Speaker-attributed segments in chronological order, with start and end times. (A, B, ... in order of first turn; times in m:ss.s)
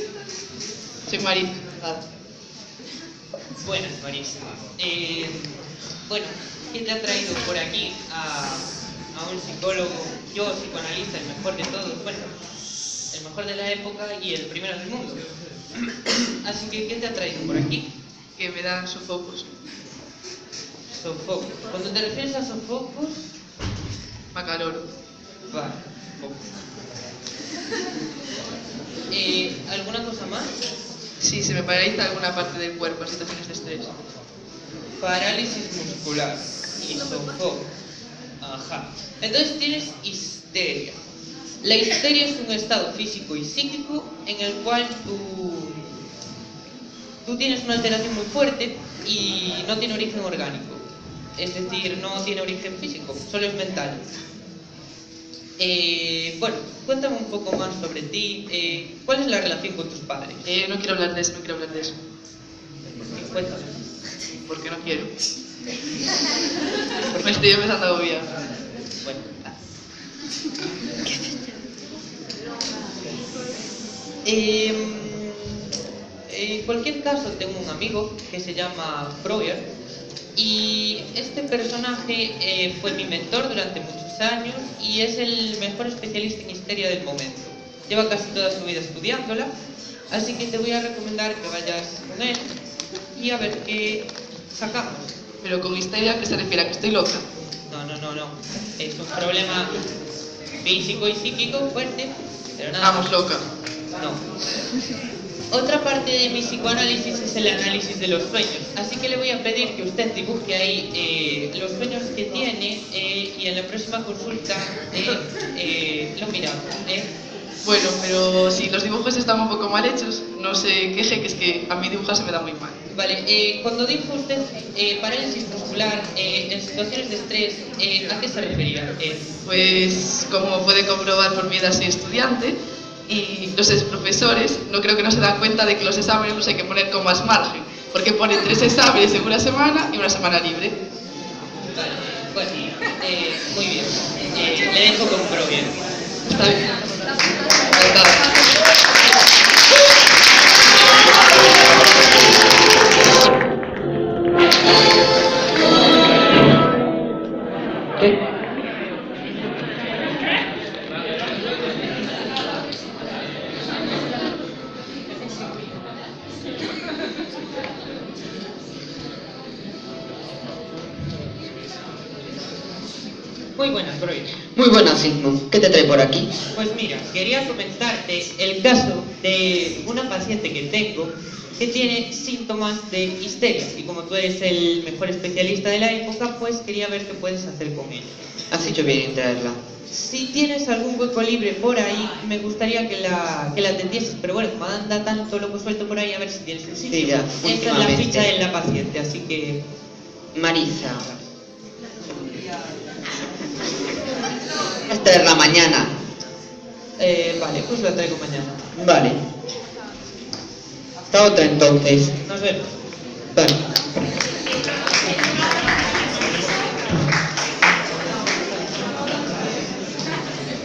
0:01.1-0:02.0 A
0:03.6-0:12.3 B
0:13.1-0:15.2 B
0:16.0-0:17.9 B
0:18.4-0:19.5 A
0:20.9-0:23.2 B
0:24.3-0:24.9 A
0:25.5-0:26.4 B
0:29.1-0:30.6 B
0:31.2-0:33.9 A
0:35.0-0:37.7 B
0:38.4-0:41.0 B
0:41.6-0:45.9 B
0:47.2-0:50.8 B
0:51.4-0:54.0 B
0:55.6-1:00.4 B
1:00.4-1:02.0 A
1:02.8-1:03.8 B
1:04.5-1:05.1 A
1:07.1-1:07.4 B
1:07.2-1:08.3 A
1:09.0-1:09.5 B
1:14.2-1:15.7 B
1:16.3-1:19.6 B
1:20.3-1:29.5 B
1:30.1-1:32.5 B
1:33.1-1:35.1 B
1:35.4-1:37.2 A
1:37.7-1:39.7 B
1:40.6-1:43.1 B
1:42.8-1:43.4 A
1:44.0-1:44.2 B
1:45.5-1:57.1 B
1:57.6-2:02.8 A
2:02.9-2:09.3 B
2:09.4-2:12.6 A
2:13.1-2:20.8 A
2:21.7-2:25.8 B
2:26.3-2:26.7 A
2:27.7-2:28.2 A
2:53.6-2:54.3 B
2:54.6-2:56.3 C
2:56.5-3:08.1 B
3:08.5-3:09.6 C
3:09.9-3:19.6 B
3:16.9-3:18.3 C
3:20.3-3:21.1 C
3:24.9-3:25.9 C
3:27.0-3:28.6 B
3:28.8-3:29.2 C
3:31.1-3:32.1 C
3:32.2-3:32.7 B